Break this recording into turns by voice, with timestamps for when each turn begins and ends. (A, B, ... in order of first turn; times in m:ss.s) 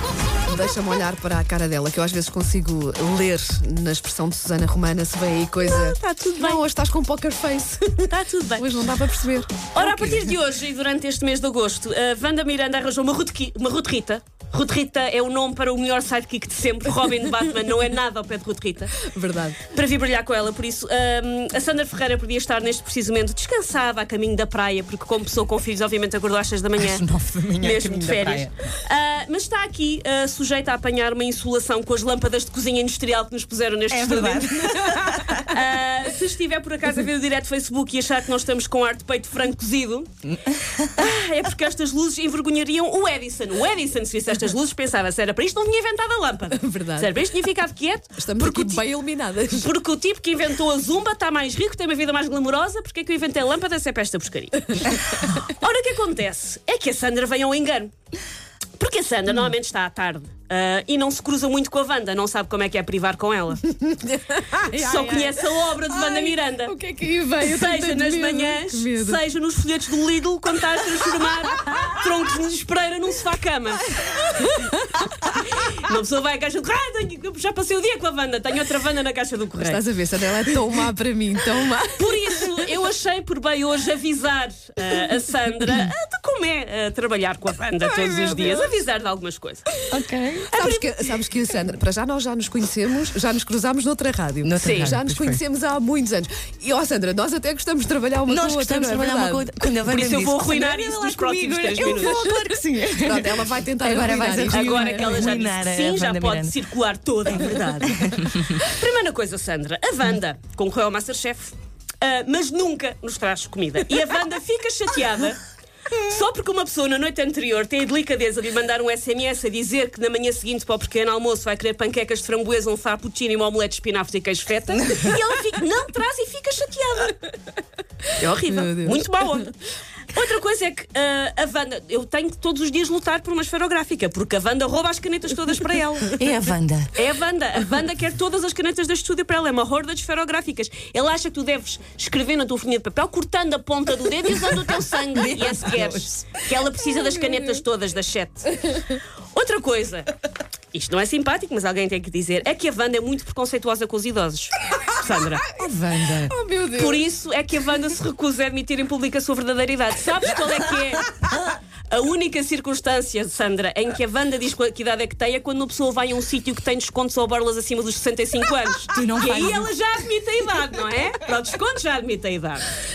0:00.5-0:09.5 A
0:05.6-0:06.6 B
0:08.1-0:08.9 B
0:09.7-0:19.0 B
0:19.1-0:19.6 A
0:19.7-0:27.0 B
0:26.8-0:28.5 C
0:27.6-0:40.1 B
0:33.9-0:35.6 C
0:40.9-0:48.8 B
0:46.5-0:47.3 A
0:48.2-0:49.7 A
0:49.5-0:57.9 B
0:58.8-1:03.6 B
1:03.7-1:09.2 A
1:04.7-1:06.7 B
1:07.4-1:14.5 B
1:15.5-1:19.8 B
1:19.6-1:22.4 A
1:22.0-1:29.7 B
1:27.8-1:28.7 A
1:29.9-1:30.5 C
1:30.5-1:31.1 B
1:30.5-1:39.5 A
1:34.4-1:35.4 C
1:34.6-1:34.9 B
1:38.2-1:46.5 C
1:39.8-1:42.2 B
1:43.0-1:45.3 A
1:44.5-1:55.4 B
1:47.3-1:48.5 C
1:55.9-2:07.3 B
2:08.2-2:09.5 B
2:08.4-2:09.0 A
2:10.1-2:16.1 B
2:16.1-2:16.9 C
2:16.9-2:30.1 B
2:25.1-2:26.2 C
2:30.7-2:35.5 B
2:35.5-2:37.0 A
2:36.8-2:41.2 B
2:41.9-2:52.8 B
2:48.9-2:49.7 C